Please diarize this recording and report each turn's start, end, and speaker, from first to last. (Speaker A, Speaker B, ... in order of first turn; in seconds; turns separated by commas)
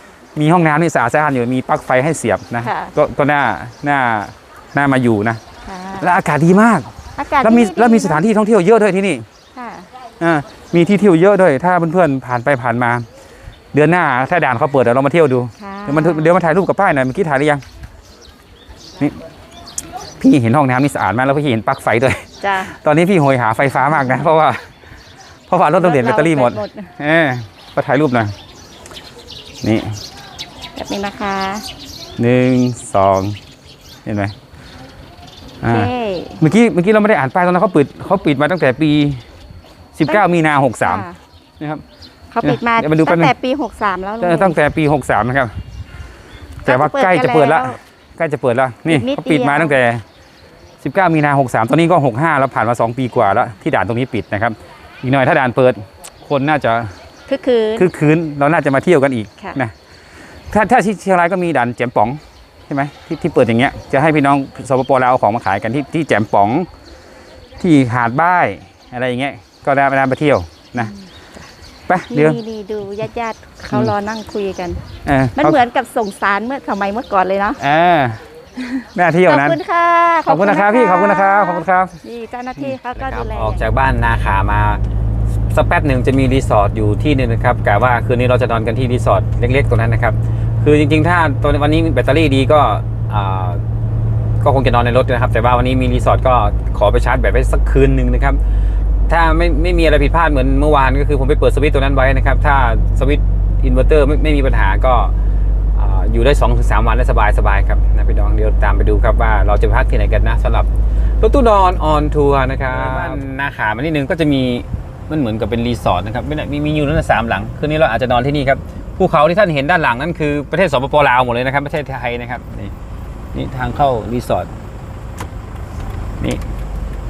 Speaker A: 0.3-5.4, Speaker B: 2.6-2.9, Speaker B: 5.6-6.1, Speaker A: 6.0-6.9, Speaker B: 7.2-8.2, Speaker A: 7.4-9.2, Speaker B: 9.5-9.9, Speaker A: 10.2-13.1, Speaker A: 13.7-17.6, Speaker B: 15.6-16.3, Speaker A: 20.2-24.6, Speaker B: 22.4-22.8, Speaker A: 25.5-28.3, Speaker B: 25.8-26.9, Speaker A: 29.6-30.0, Speaker B: 30.7-31.6, Speaker A: 32.2-33.4, Speaker A: 34.0-34.3, Speaker A: 35.6-35.9, Speaker B: 35.7-36.4, Speaker A: 36.4-39.2, Speaker A: 39.9-41.0, Speaker B: 40.8-41.2, Speaker B: 42.3-44.6, Speaker A: 42.4-43.3, Speaker A: 44.2-45.5, Speaker B: 46.6-47.8, Speaker A: 46.6-50.0, Speaker B: 48.9-49.8, Speaker A: 50.8-56.9, Speaker B: 57.3-57.9, Speaker A: 57.8-59.7, Speaker A: 60.5-66.7, Speaker A: 67.6-70.9, Speaker A: 71.9-72.4, Speaker B: 72.1-74.8, Speaker A: 75.0-75.6, Speaker B: 75.3-77.6, Speaker A: 77.6-78.2, Speaker B: 78.6-83.6, Speaker A: 78.9-79.6, Speaker A: 80.2-82.0, Speaker A: 82.6-84.8, Speaker A: 85.5-93.6, Speaker A: 94.4-98.4, Speaker A: 99.1-105.1, Speaker A: 105.7-110.7, Speaker A: 111.2-122.7, Speaker A: 123.3-124.5